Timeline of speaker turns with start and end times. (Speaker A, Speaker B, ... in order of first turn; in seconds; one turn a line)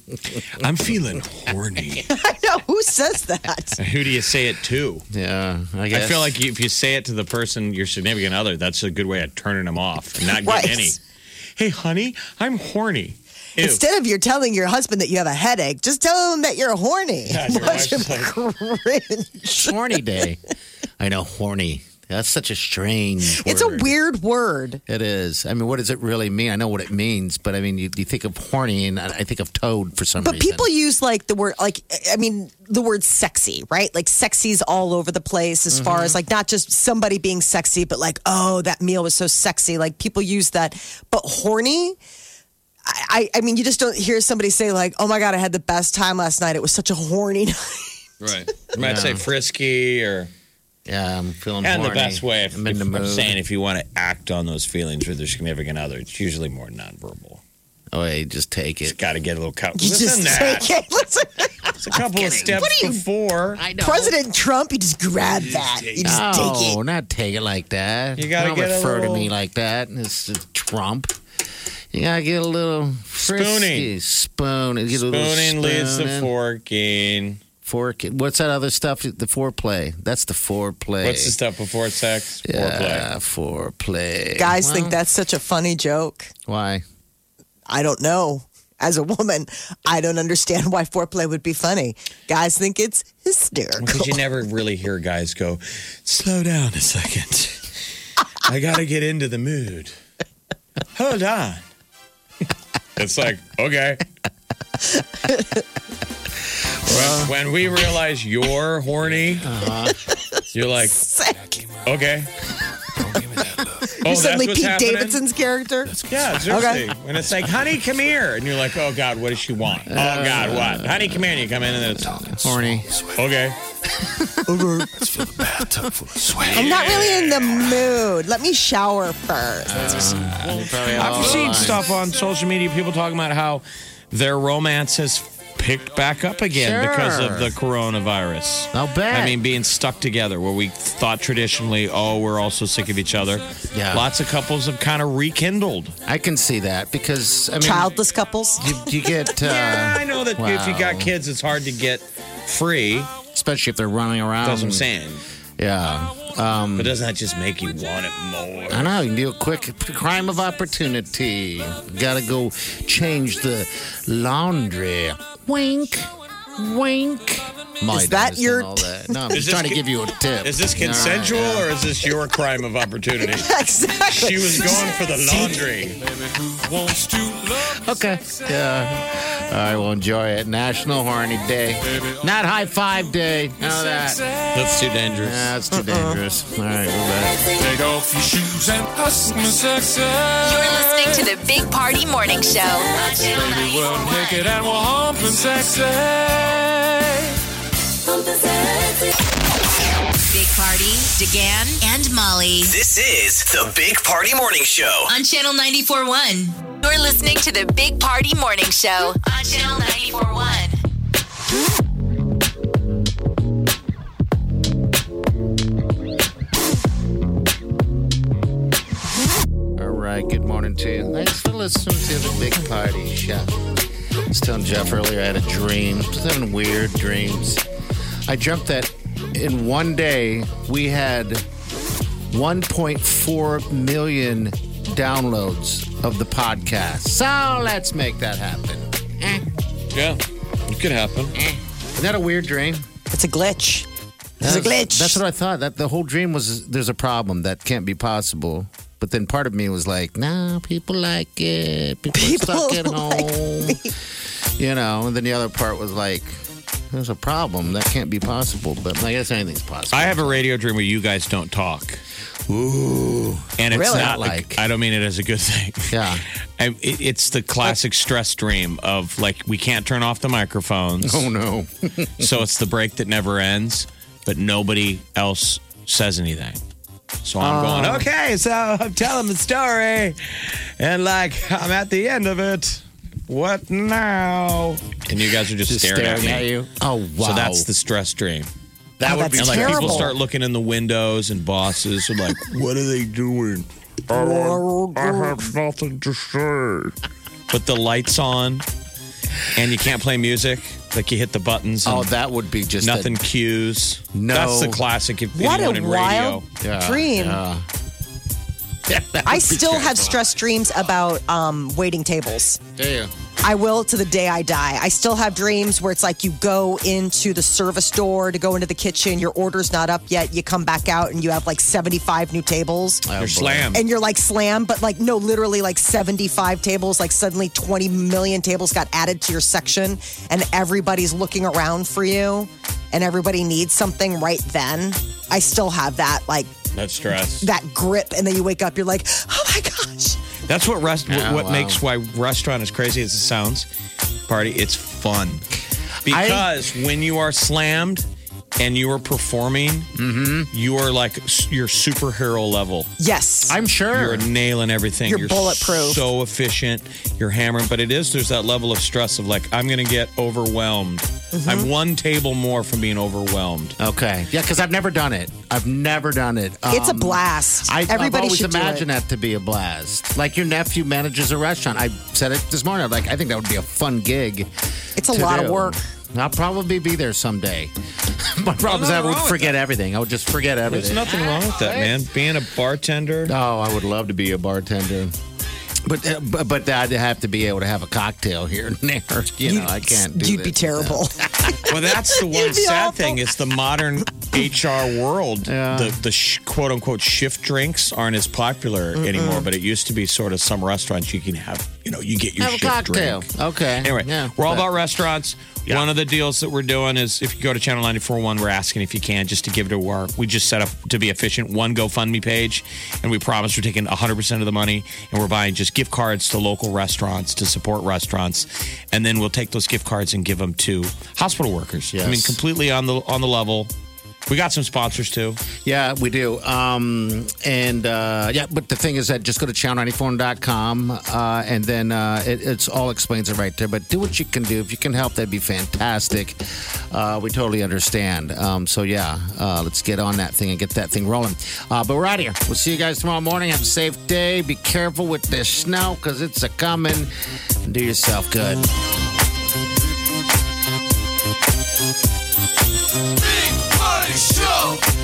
Speaker A: 0.6-2.1
Speaker B: 2.1-3.8
Speaker A: 3.8-5.0
Speaker C: 5.1-6.3
Speaker A: 5.9-11.0
Speaker B: 10.2-11.0
Speaker A: 11.6-13.8
Speaker B: 13.6-19.8
Speaker A: 17.3-18.4
Speaker C: 19.6-20.4
Speaker C: 21.0-23.9
Speaker B: 23.3-24.8
Speaker C: 24.9-30.7
Speaker B: 30.2-42.0
Speaker C: 35.7-36.2
Speaker B: 42.9-47.9
Speaker A: 48.2-50.3
Speaker C: 48.8-49.2
Speaker C: 50.9-53.4
Speaker A: 51.6-57.4
Speaker C: 57.9-59.0
Speaker A: 58.9-60.7
Speaker B: 59.8-61.5
Speaker A: 61.8-63.6
Speaker C: 62.1-62.6
Speaker B: 62.4-63.0
Speaker C: 63.6-64.2
Speaker B: 63.8-66.8
Speaker A: 65.6-66.2
Speaker C: 66.0-71.2
Speaker A: 68.2-69.3
Speaker C: 71.9-76.3
Speaker A: 73.2-73.9
Speaker A: 74.9-77.4
Speaker C: 77.7-81.3
Speaker A: 81.0-83.1
Speaker C: 82.5-85.0
Speaker B: 84.4-86.3
Speaker C: 86.5-86.8
Speaker B: 87.7-94.2
Speaker A: 93.8-97.7
Speaker A: 98.5-99.9
Speaker A: 101.0-101.6
Speaker A: 103.0-104.0
Speaker C: 106.9-107.3
Speaker A: 106.9-109.5
Speaker C: 109.4-110.0
Speaker A: 110.5-111.0
Speaker B: 111.0-111.4
Speaker A: 111.8-112.3
Speaker A: 113.1-115.2
Speaker B: 114.0-115.9
Speaker A: 116.0-122.6
Speaker B: 116.5-116.8
Speaker C: 119.9-121.2
Speaker C: 122.0-123.0
Speaker A: 123.2-123.6
Speaker C: 124.0-125.6
Speaker A: 126.2-127.8
Speaker B: 126.5-129.7
Speaker C: 129.7-131.9
Speaker A: 130.6-145.9
Speaker C: 136.5-137.5
Speaker C: 138.7-139.4
Speaker C: 143.7-144.1
Speaker C: 146.1-147.9
Speaker B: 147.6-148.7
Speaker C: 148.6-151.1
Speaker A: 149.4-153.1
Speaker C: 153.3-154.8
Speaker A: 154.4-155.2
Speaker C: 155.6-156.9
Speaker A: 156.8-158.9
Speaker C: 158.7-171.7
Speaker B: 167.9-168.9
Speaker A: 169.3-169.8
Speaker A: 170.4-176.0
Speaker B: 173.2-175.6
Speaker D: 176.6-177.4
Speaker C: 177.6-184.2
Speaker A: 184.5-185.5
Speaker C: 185.2-187.6
Speaker D: 187.8-190.3
Speaker E: 190.4-194.7
Speaker D: 193.6-196.9
Speaker E: 200.3-202.8
Speaker F: 202.7-205.1
Speaker E: 205.1-210.8
Speaker C: 219.8-223.6
Speaker C: 224.3-227.6
Speaker C: 228.3-231.4
Speaker C: 232.3-239.4
Speaker A: 239.9-241.3
Speaker C: 241.3-242.8
Speaker B: 243.1-243.9
Speaker C: 244.4-253.9
Speaker B: 244.4-245.2
Speaker B: 252.1-253.9
Speaker C: 254.6-256.4
Speaker C: 256.9-260.4
Speaker A: 259.9-262.0
Speaker C: 262.5-264.6
Speaker A: 263.6-271.3
Speaker C: 265.9-266.2
Speaker C: 271.0-272.4
Speaker A: 272.2-276.6
Speaker A: 277.2-286.5
Speaker C: 277.4-278.1
Speaker C: 285.7-287.7
Speaker A: 287.2-288.5
Speaker C: 289.0-290.2
Speaker B: 289.0-290.1
Speaker A: 289.3-293.7
Speaker B: 294.1-295.5
Speaker A: 295.4-296.3
Speaker A: 297.5-298.6
Speaker A: 299.5-302.1
Speaker C: 301.8-303.2
Speaker A: 302.8-306.4
Speaker C: 304.1-304.8
Speaker B: 305.4-307.4
Speaker C: 306.6-307.6
Speaker C: 308.9-310.2
Speaker B: 309.3-312.6
Speaker C: 312.8-313.1
Speaker B: 313.4-323.0
Speaker C: 323.1-323.7
Speaker A: 323.2-323.8
Speaker B: 323.7-336.5
Speaker A: 336.7-337.4
Speaker B: 337.4-340.2
Speaker A: 340.5-343.7
Speaker C: 341.1-341.8
Speaker A: 344.3-345.4
Speaker C: 346.1-346.5
Speaker A: 346.1-348.1
Speaker A: 348.6-349.9
Speaker C: 349.9-350.5
Speaker A: 350.5-352.9
Speaker B: 353.0-353.6
Speaker C: 353.5-354.3
Speaker A: 353.9-363.8
Speaker B: 355.1-356.0
Speaker B: 361.3-361.7
Speaker C: 363.8-382.0
Speaker B: 366.7-368.9
Speaker B: 375.0-375.8
Speaker A: 378.7-379.5
Speaker A: 380.7-383.3
Speaker C: 383.3-385.1
Speaker C: 385.9-391.6
Speaker B: 389.4-391.1
Speaker A: 391.7-403.3
Speaker B: 392.3-393.2
Speaker C: 395.4-396.0
Speaker C: 402.4-404.7
Speaker A: 403.8-423.7
Speaker C: 421.9-422.4
Speaker A: 424.3-425.4
Speaker C: 425.6-447.1
Speaker C: 447.6-448.7
Speaker D: 453.6-454.8